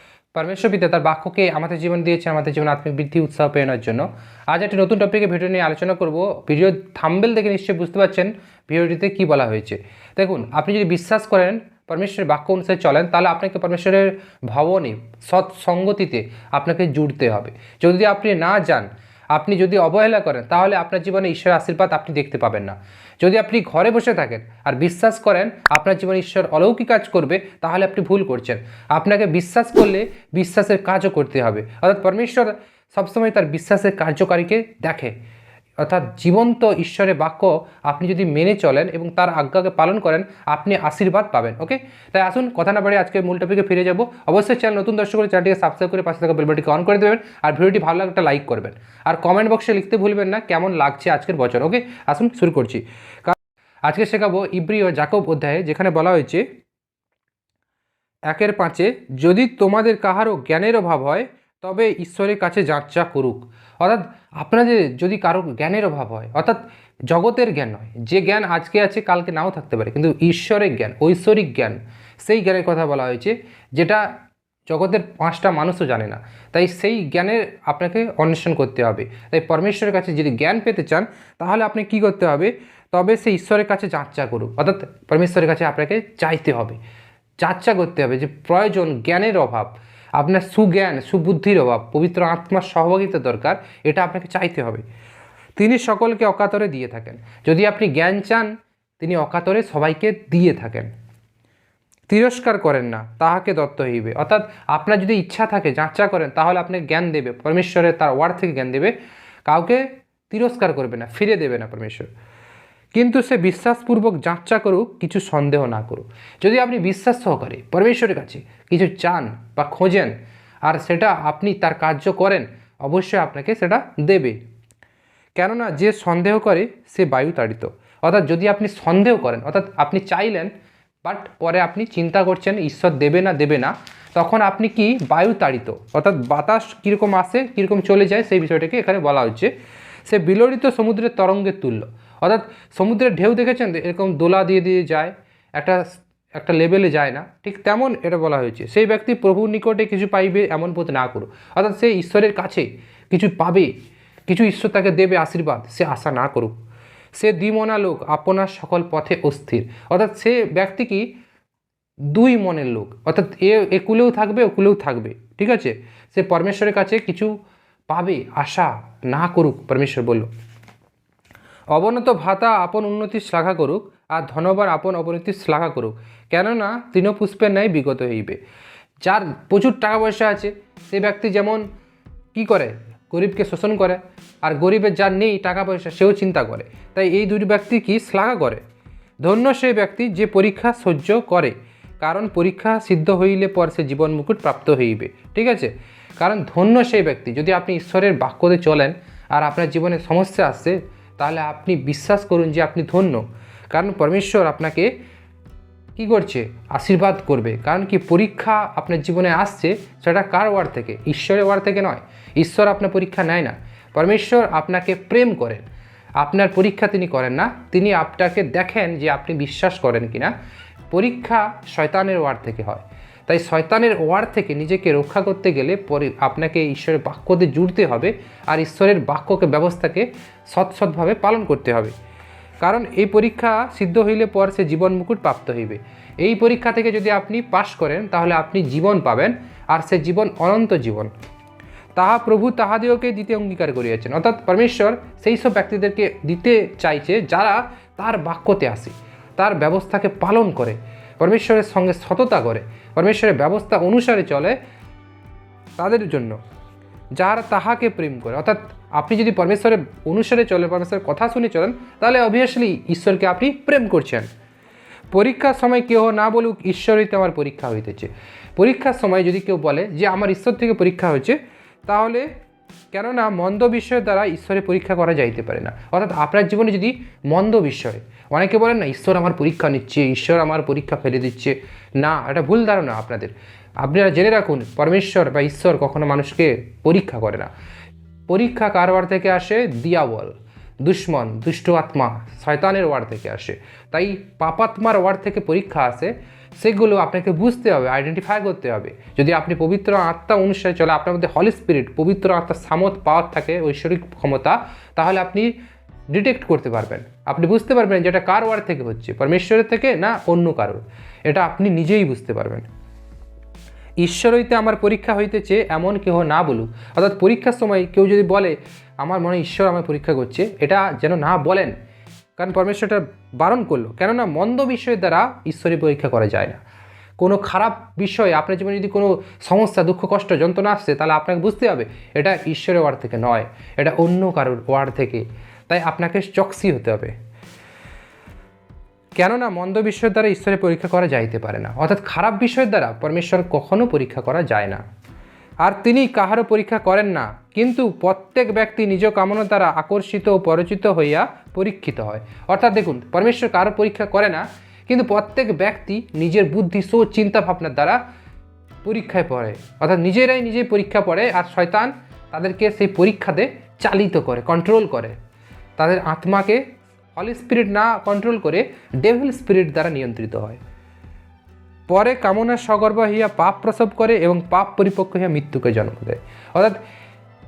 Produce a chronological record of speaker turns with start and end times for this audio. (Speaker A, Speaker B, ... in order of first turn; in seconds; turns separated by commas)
Speaker A: 0.3-35.1, Speaker A: 35.8-56.4, Speaker A: 58.3-74.0, Speaker A: 74.7-86.8, Speaker A: 87.4-94.8, Speaker A: 95.6-100.9, Speaker A: 102.1-108.9, Speaker A: 109.5-112.1, Speaker A: 112.9-120.1, Speaker A: 120.7-124.4, Speaker A: 125.4-130.5, Speaker A: 131.0-139.5, Speaker A: 140.1-153.7, Speaker A: 154.3-156.5, Speaker A: 157.2-161.1, Speaker A: 162.1-167.3, Speaker A: 167.9-170.3, Speaker A: 171.7-178.4, Speaker A: 179.0-181.6, Speaker A: 182.3-188.6, Speaker A: 189.2-204.9, Speaker A: 205.9-215.6, Speaker A: 216.2-220.3, Speaker A: 220.9-231.9, Speaker A: 232.6-241.1, Speaker A: 242.0-254.6, Speaker A: 255.8-256.4, Speaker A: 257.2-264.3, Speaker A: 265.1-272.3, Speaker A: 272.9-287.5, Speaker A: 288.3-305.5, Speaker A: 306.1-312.7, Speaker A: 314.0-321.7, Speaker A: 322.4-326.6, Speaker A: 327.2-337.1, Speaker A: 339.1-344.8, Speaker A: 345.6-358.0, Speaker A: 358.8-365.1, Speaker A: 365.8-366.6, Speaker A: 367.1-370.6, Speaker A: 371.9-376.8